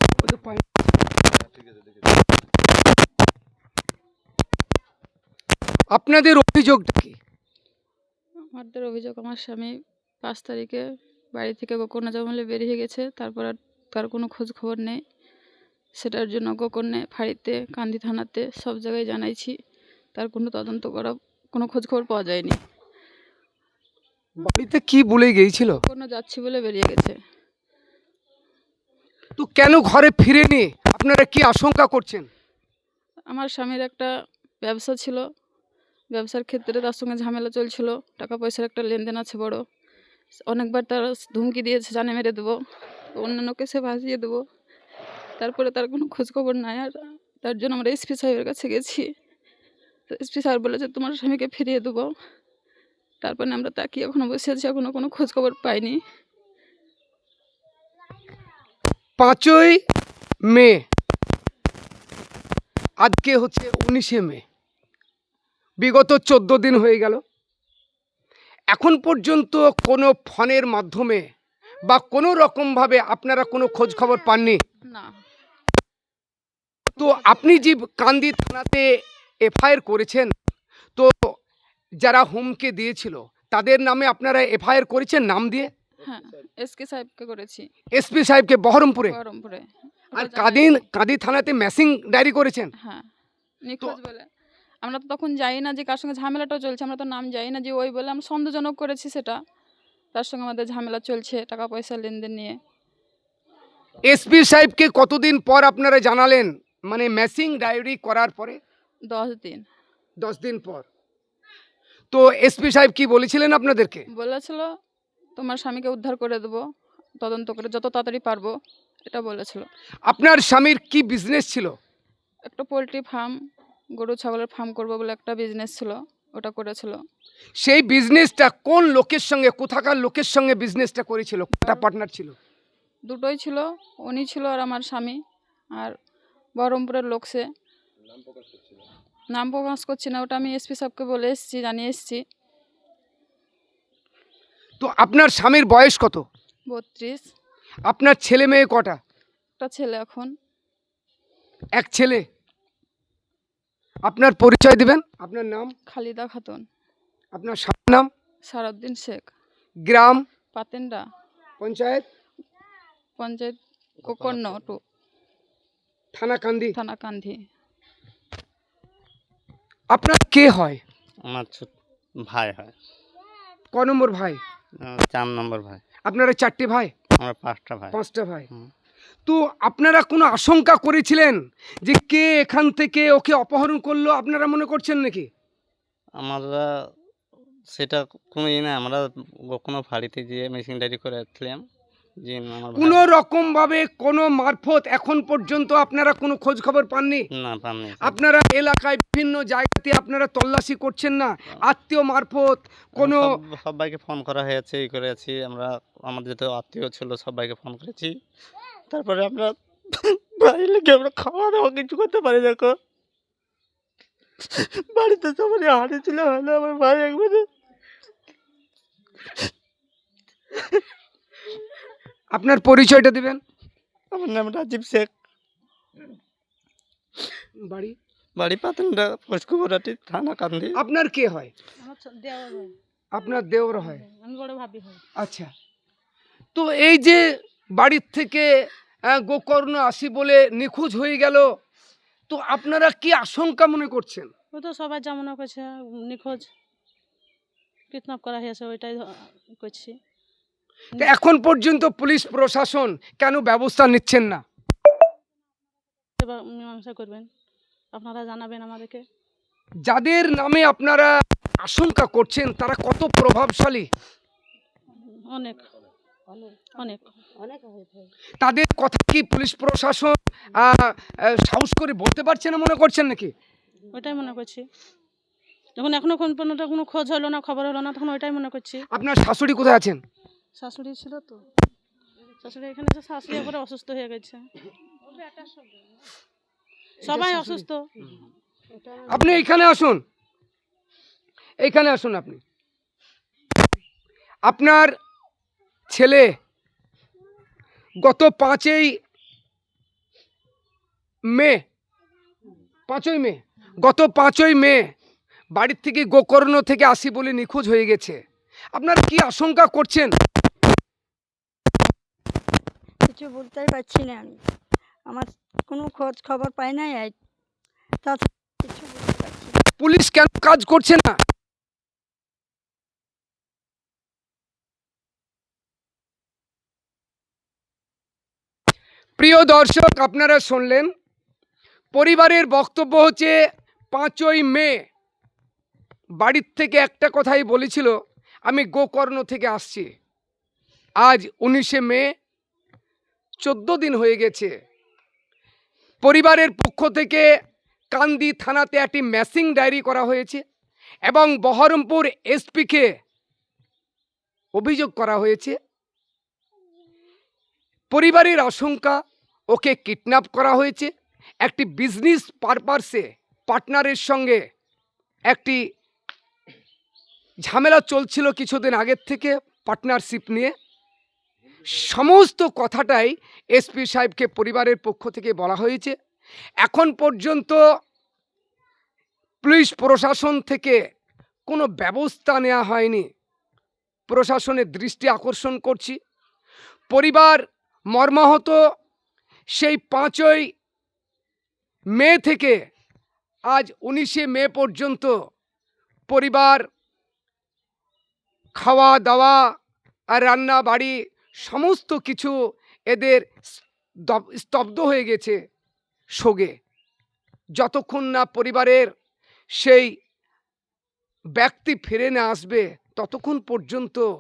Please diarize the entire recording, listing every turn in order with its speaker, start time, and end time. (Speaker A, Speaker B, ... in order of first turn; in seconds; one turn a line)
Speaker A: 0.2-0.7
Speaker A: 5.9-7.2
Speaker B: 8.5-10.8
Speaker B: 11.3-15.0
Speaker B: 16.0-19.5
Speaker B: 20.1-22.6
Speaker A: 24.4-25.8
Speaker B: 25.8-27.2
Speaker A: 29.4-32.3
Speaker B: 33.3-34.1
Speaker B: 34.6-35.2
Speaker B: 36.1-39.6
Speaker B: 40.5-42.6
Speaker B: 43.1-44.4
Speaker B: 45.4-49.1
Speaker B: 50.1-52.1
Speaker B: 53.2-56.0
Speaker A: 59.2-59.8
Speaker A: 60.5-60.8
Speaker A: 63.0-64.4
Speaker A: 65.8-67.2
Speaker A: 68.7-71.3
Speaker A: 71.9-74.6
Speaker B: 74.9-75.2
Speaker A: 77.0-80.3
Speaker A: 81.0-81.3
Speaker A: 82.0-85.7
Speaker B: 86.0-87.6
Speaker A: 87.9-89.2
Speaker B: 89.1-90.8
Speaker A: 90.2-92.7
Speaker B: 92.8-93.1
Speaker B: 93.6-94.3
Speaker B: 94.8-99.4
Speaker B: 100.1-102.6
Speaker A: 104.0-108.6
Speaker B: 109.1-109.7
Speaker A: 110.2-110.9
Speaker A: 112.1-114.0
Speaker B: 114.1-114.7
Speaker B: 115.4-116.6
Speaker B: 117.2-118.5
Speaker B: 119.1-119.7
Speaker A: 120.1-121.7
Speaker B: 122.5-123.3
Speaker B: 124.0-127.0
Speaker A: 127.6-132.4
Speaker B: 133.1-135.2
Speaker B: 136.6-137.4
Speaker B: 139.3-142.2
Speaker A: 144.8-146.2
Speaker B: 146.7-147.3
Speaker A: 147.9-149.0
Speaker B: 149.6-150.3
Speaker A: 151.8-152.2
Speaker A: 154.1-155.7
Speaker B: 155.9-156.6
Speaker A: 157.3-158.1
Speaker B: 158.5-159.3
Speaker A: 159.9-160.2
Speaker B: 160.5-161.0
Speaker A: 161.6-162.1
Speaker B: 163.2-164.8
Speaker C: 164.1-164.5
Speaker A: 166.1-166.8
Speaker B: 166.8-167.4
Speaker A: 169.9-170.8
Speaker C: 171.3-171.7
Speaker C: 172.3-172.7
Speaker A: 173.7-174.4
Speaker C: 174.9-175.8
Speaker A: 176.1-176.9
Speaker C: 177.2-178.0
Speaker A: 177.9-178.5
Speaker A: 179.3-185.3
Speaker C: 186.2-186.7
Speaker C: 187.7-189.0
Speaker C: 189.5-191.6
Speaker C: 192.2-193.0
Speaker A: 192.8-197.2
Speaker C: 197.3-198.2
Speaker A: 198.0-203.3
Speaker C: 203.0-208.1
Speaker C: 208.9-212.8
Speaker C: 214.4-217.5
Speaker C: 220.6-220.8
Speaker A: 222.3-223.4
Speaker C: 224.1-225.1
Speaker A: 227.6-228.0
Speaker C: 228.4-230.8
Speaker A: 230.8-231.5
Speaker D: 231.8-232.7
Speaker A: 233.1-234.0
Speaker D: 233.8-235.0
Speaker A: 235.2-235.5
Speaker A: 236.6-238.5
Speaker A: 239.1-241.5
Speaker A: 242.3-244.3
Speaker D: 244.6-246.5
Speaker D: 247.9-249.9
Speaker A: 251.0-254.4
Speaker D: 256.2-257.3
Speaker D: 257.9-259.0
Speaker A: 259.9-261.1
Speaker A: 261.6-263.9
Speaker D: 265.3-265.7
Speaker D: 266.8-267.1
Speaker E: 267.4-268.1
Speaker A: 268.4-273.3
Speaker D: 273.9-274.6
Speaker D: 275.8-278.8
Speaker A: 278.9-280.0
Speaker D: 280.6-281.4
Speaker D: 282.4-284.4
Speaker D: 285.1-285.6
Speaker D: 287.0-287.9
Speaker A: 287.1-287.6
Speaker A: 289.1-290.0
Speaker A: 291.6-292.4
Speaker A: 294.5-294.9
Speaker A: 295.9-296.3
Speaker A: 298.0-298.9
Speaker A: 301.3-301.6
Speaker A: 302.9-304.9
Speaker A: 305.5-308.2
Speaker A: 308.7-310.1
Speaker E: 313.1-314.4
Speaker E: 315.1-317.1
Speaker E: 318.0-319.6
Speaker A: 319.8-321.2
Speaker A: 329.2-330.9
Speaker A: 331.9-333.4
Speaker A: 333.9-334.9
Speaker A: 336.2-337.9
Speaker A: 338.5-339.9
Speaker A: 341.0-342.1
Speaker A: 343.4-344.5
Speaker A: 346.0-347.3
Speaker A: 347.9-350.4
Speaker A: 351.1-352.9
Speaker A: 354.6-355.6
Speaker A: 357.9-360.9
Speaker A: 361.4-364.4
Speaker A: 365.3-365.6
Speaker A: 367.4-370.5
Speaker A: 371.6-375.9
Speaker A: 376.6-377.6
Speaker A: 379.4-380.8
Speaker A: 381.5-383.1
Speaker A: 384.1-386.0
Speaker A: 386.9-388.6
Speaker A: 389.5-390.5
Speaker A: 391.9-392.6
Speaker A: 393.5-395.2
Speaker A: 396.1-396.7
Speaker A: 398.6-399.5
Speaker A: 400.1-402.4
Speaker A: 402.9-405.4
Speaker A: 406.2-406.6
Speaker A: 407.6-408.9
Speaker A: 409.6-409.9
Speaker A: 411.4-414.1